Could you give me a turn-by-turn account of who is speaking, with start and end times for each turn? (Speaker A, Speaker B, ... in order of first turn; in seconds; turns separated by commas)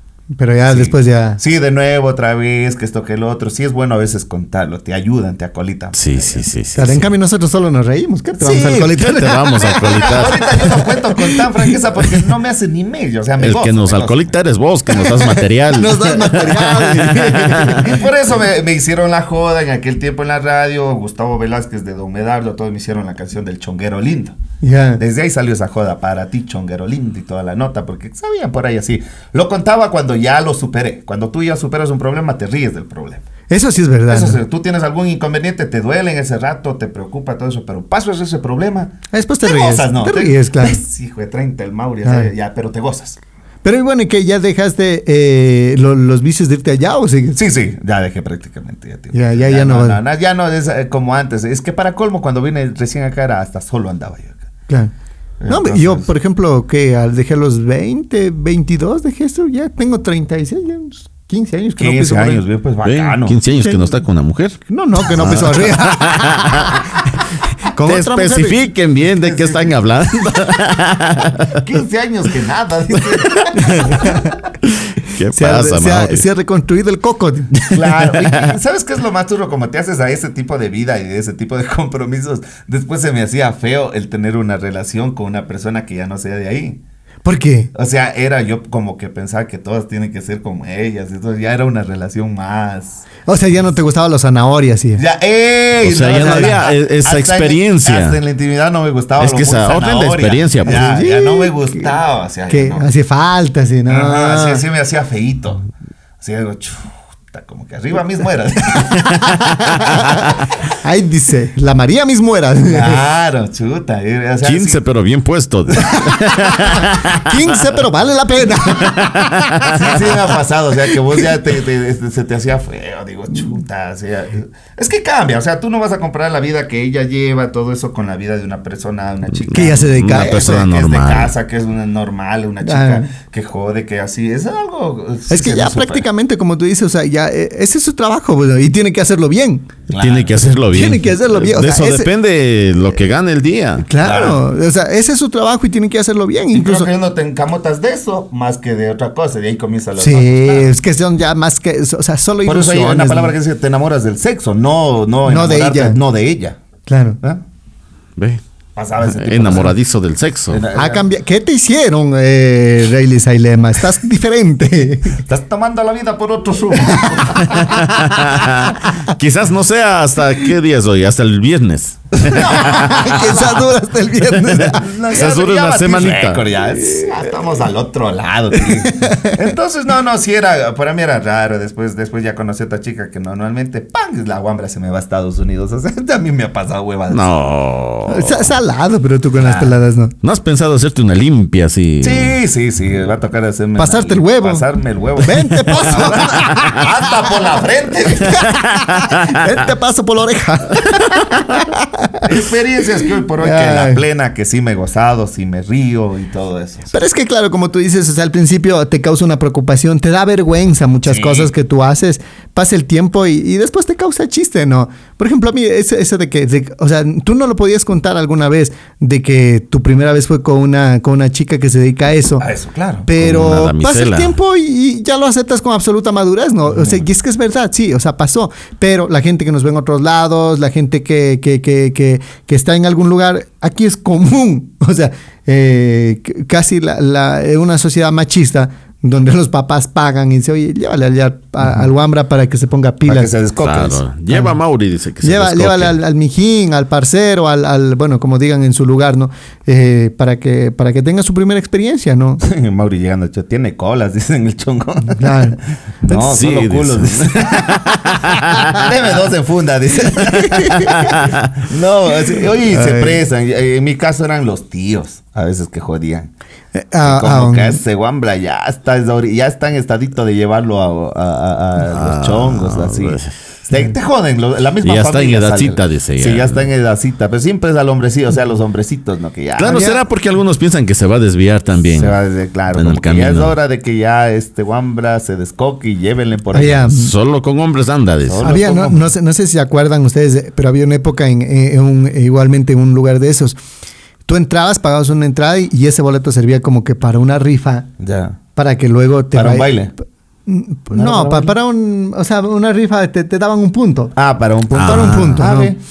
Speaker A: 0.4-1.4, Speaker B: 0.7-6.5, Speaker C: 5.9-7.0, Speaker A: 6.8-11.7, Speaker C: 8.4-10.5, Speaker B: 8.5-8.8, Speaker B: 9.7-14.3, Speaker C: 13.4-17.9, Speaker A: 14.9-18.1, Speaker B: 17.7-24.4, Speaker A: 24.6-25.0, Speaker B: 25.0-33.2, Speaker A: 33.5-34.4, Speaker B: 34.1-43.2, Speaker A: 39.1-40.8, Speaker A: 42.0-42.3, Speaker A: 43.6-47.4, Speaker B: 47.3-54.4, Speaker A: 49.1-50.0, Speaker B: 55.4-56.1, Speaker A: 55.5-62.4, Speaker B: 61.8-63.4, Speaker C: 62.8-67.0, Speaker A: 63.5-64.0, Speaker A: 64.7-66.8, Speaker A: 67.7-68.6, Speaker C: 67.8-71.6, Speaker B: 69.2-69.7, Speaker B: 71.5-74.3, Speaker C: 73.0-76.2, Speaker A: 73.8-74.3, Speaker A: 75.3-77.7, Speaker B: 77.7-86.8, Speaker C: 77.7-78.5, Speaker A: 87.2-87.7, Speaker B: 87.7-93.1, Speaker A: 93.3-95.0, Speaker B: 95.0-102.9, Speaker C: 95.8-98.2, Speaker A: 96.2-96.6, Speaker C: 99.2-100.9, Speaker A: 100.6-101.9, Speaker A: 102.5-104.6, Speaker B: 103.9-105.7, Speaker B: 106.2-110.2, Speaker A: 109.7-113.0, Speaker B: 112.7-114.8, Speaker C: 114.4-117.4, Speaker A: 116.1-119.9, Speaker C: 118.7-120.0, Speaker B: 119.7-136.0, Speaker C: 129.4-131.3, Speaker A: 129.5-130.7, Speaker A: 132.6-133.1, Speaker A: 135.3-139.7, Speaker B: 139.9-140.4, Speaker C: 140.0-143.8, Speaker A: 140.6-142.1, Speaker A: 143.8-146.9, Speaker B: 144.0-144.4, Speaker B: 146.5-150.7, Speaker A: 150.0-153.3, Speaker B: 152.4-156.6, Speaker A: 155.2-156.0, Speaker A: 156.9-157.2, Speaker C: 158.2-158.4, Speaker B: 158.8-159.8, Speaker C: 159.0-160.6, Speaker B: 160.5-161.1, Speaker A: 160.7-165.2, Speaker B: 165.2-167.9, Speaker A: 166.8-167.6, Speaker C: 167.4-173.5, Speaker A: 172.2-174.9, Speaker B: 172.5-173.4, Speaker C: 174.5-176.4, Speaker B: 174.6-187.3, Speaker A: 176.8-177.1, Speaker A: 178.6-179.4, Speaker C: 187.1-188.5, Speaker A: 188.1-190.1, Speaker B: 189.4-189.8, Speaker C: 190.2-192.4, Speaker B: 192.0-198.5, Speaker A: 193.8-194.7, Speaker A: 195.2-197.0, Speaker A: 198.2-202.3, Speaker C: 198.3-199.4, Speaker B: 202.2-206.9, Speaker A: 203.4-204.0, Speaker A: 206.9-222.4, Speaker B: 211.1-211.5, Speaker B: 222.4-223.1, Speaker A: 223.1-243.3, Speaker C: 223.2-224.3, Speaker B: 226.7-227.0, Speaker B: 243.1-244.0, Speaker C: 243.6-246.0, Speaker A: 244.3-244.6, Speaker A: 245.2-252.4, Speaker B: 252.4-266.3, Speaker A: 255.1-255.6, Speaker C: 256.1-258.9, Speaker A: 260.3-260.9, Speaker C: 260.5-261.5, Speaker A: 262.6-263.2, Speaker A: 266.7-267.8, Speaker B: 267.0-279.9, Speaker C: 271.8-273.3, Speaker C: 274.8-276.7, Speaker C: 279.6-282.1, Speaker A: 279.6-280.0, Speaker B: 281.9-286.9, Speaker C: 282.7-283.6, Speaker A: 286.5-287.1, Speaker C: 286.8-288.4, Speaker B: 288.3-289.1, Speaker A: 288.4-293.6, Speaker A: 294.3-297.9, Speaker B: 298.0-298.4, Speaker A: 298.5-299.7, Speaker B: 299.3-299.9, Speaker A: 300.5-304.1, Speaker B: 300.9-301.5, Speaker B: 304.1-305.8, Speaker A: 304.7-305.7, Speaker C: 304.8-305.4